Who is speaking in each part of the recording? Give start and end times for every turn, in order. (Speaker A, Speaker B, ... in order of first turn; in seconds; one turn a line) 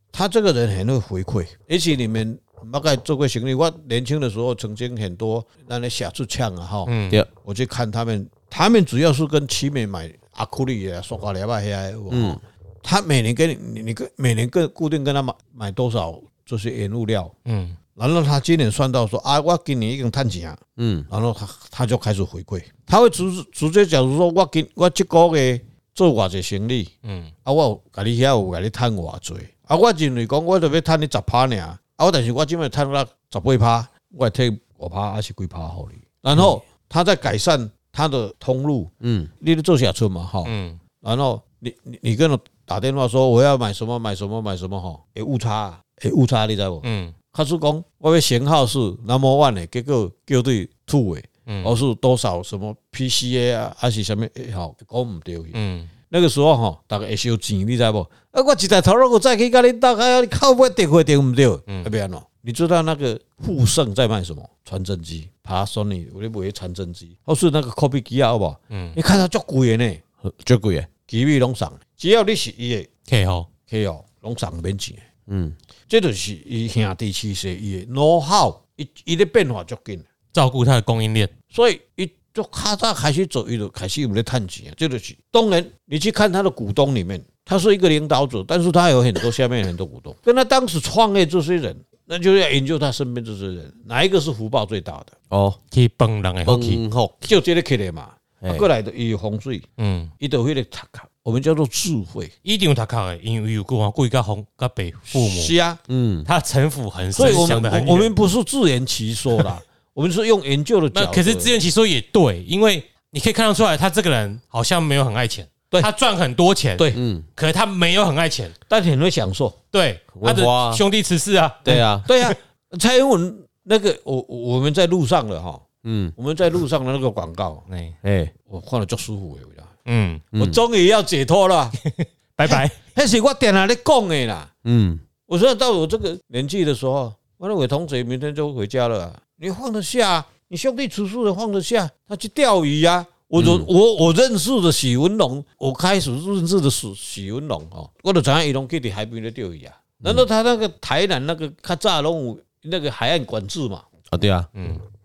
Speaker A: 0.1-17.3
Speaker B: 6.9-7.2
Speaker C: 12.1-12.4
Speaker B: 17.5-17.8
Speaker A: 17.9-26.9
Speaker C: 20.8-21.1
Speaker B: 27.0-27.3
Speaker A: 27.4-55.6
Speaker C: 39.0-39.3
Speaker B: 40.5-40.8
Speaker B: 46.8-47.1
Speaker B: 51.5-51.7
Speaker B: 55.5-55.9
Speaker A: 56.1-70.0
Speaker B: 68.7-69.0
Speaker C: 70.2-70.9
Speaker A: 71.1-72.9
Speaker B: 73.1-73.5
Speaker A: 73.7-75.0
Speaker C: 75.3-75.5
Speaker A: 75.9-80.1
Speaker B: 80.3-81.3
Speaker A: 81.5-95.1
Speaker C: 95.3-95.6
Speaker B: 95.7-96.8
Speaker C: 96.5-97.3
Speaker A: 97.2-99.6
Speaker C: 98.4-98.7
Speaker B: 99.8-100.1
Speaker A: 100.2-102.3
Speaker B: 102.4-105.5
Speaker A: 105.1-105.8
Speaker C: 105.9-106.3
Speaker B: 106.2-108.1
Speaker A: 107.1-111.5
Speaker B: 110.9-118.5
Speaker C: 116.9-117.2
Speaker A: 118.7-119.5
Speaker B: 119.7-122.3
Speaker C: 120.1-120.8
Speaker C: 121.6-122.1
Speaker A: 121.7-125.6
Speaker C: 125.8-126.1
Speaker A: 126.2-127.7
Speaker B: 127.7-128.0
Speaker C: 128.0-128.3
Speaker A: 128.5-129.7
Speaker B: 129.9-130.2
Speaker C: 130.3-130.6
Speaker A: 130.3-131.8
Speaker B: 131.8-132.8
Speaker A: 132.4-134.5
Speaker C: 134.6-135.0
Speaker A: 135.3-153.8
Speaker C: 143.4-143.7
Speaker C: 154.1-154.5
Speaker B: 154.5-154.8